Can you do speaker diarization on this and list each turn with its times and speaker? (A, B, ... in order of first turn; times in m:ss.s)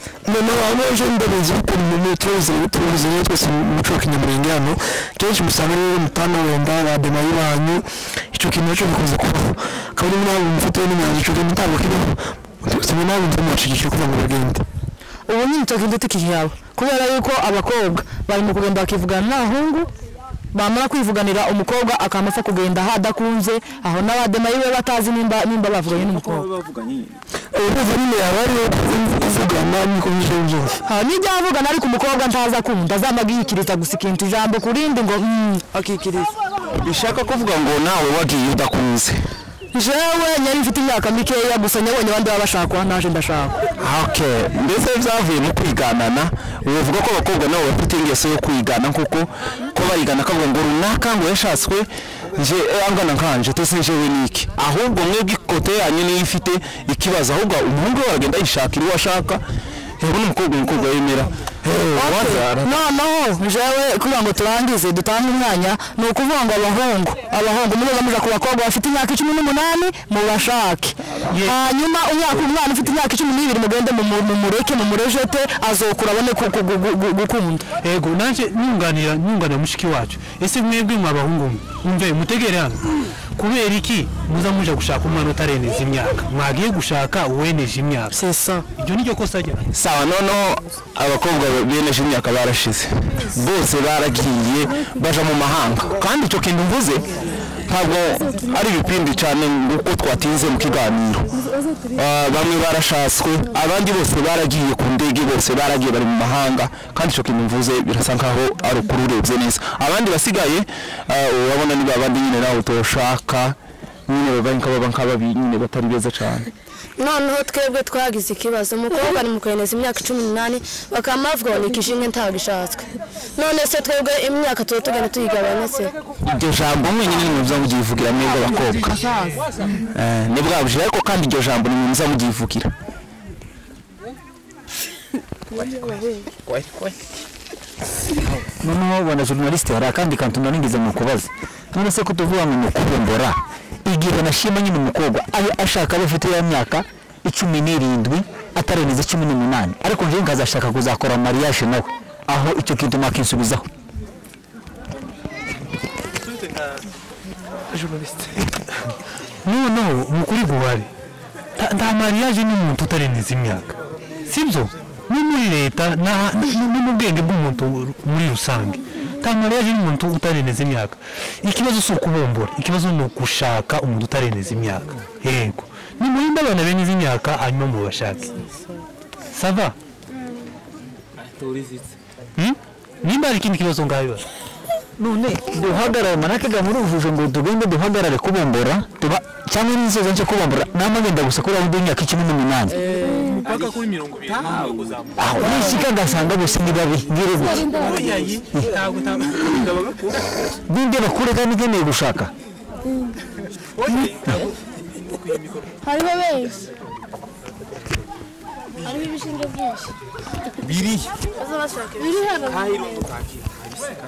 0:00.2-0:14.6 A
0:15.3-0:19.9 B
0:20.5-0:26.5 B
0:26.1-0:27.2 C
0:27.5-0:30.8 A
0:30.8-0:36.3 B
0:36.8-0:39.2 C
0:39.7-0:43.6 B
0:43.8-0:59.4 C
1:00.0-1:02.7 C
1:01.9-1:17.7 B
1:11.3-1:11.6 D
1:17.8-1:22.8 D
1:23.4-1:28.2 D
1:28.1-1:28.6 B
1:28.8-1:29.7 D
1:29.7-1:37.1 C
1:37.7-1:41.3 C
1:41.9-1:53.6 C
1:54.1-1:56.5 C
1:57.0-2:06.0 E
2:06.2-2:09.0 C
2:09.9-2:12.7 C
2:16.5-2:16.8 C
2:18.6-2:33.7 F
2:37.7-2:38.6 A
2:39.4-2:40.9 D
2:41.6-2:43.7 D
2:44.3-2:58.4 D
2:59.3-2:59.8 D
3:01.4-3:01.7 C
3:02.4-3:04.2 D
3:05.0-3:12.8 F
3:12.8-3:13.3 B
3:13.1-3:15.2 D
3:15.2-3:17.9 F
3:17.5-3:18.0 E
3:17.7-3:19.7 D
3:18.5-3:18.8 F
3:20.7-3:22.3 F
3:23.8-3:24.1 D
3:25.8-3:26.7 E
3:28.8-3:29.9 E
3:30.7-3:31.1 C
3:31.3-3:33.0 E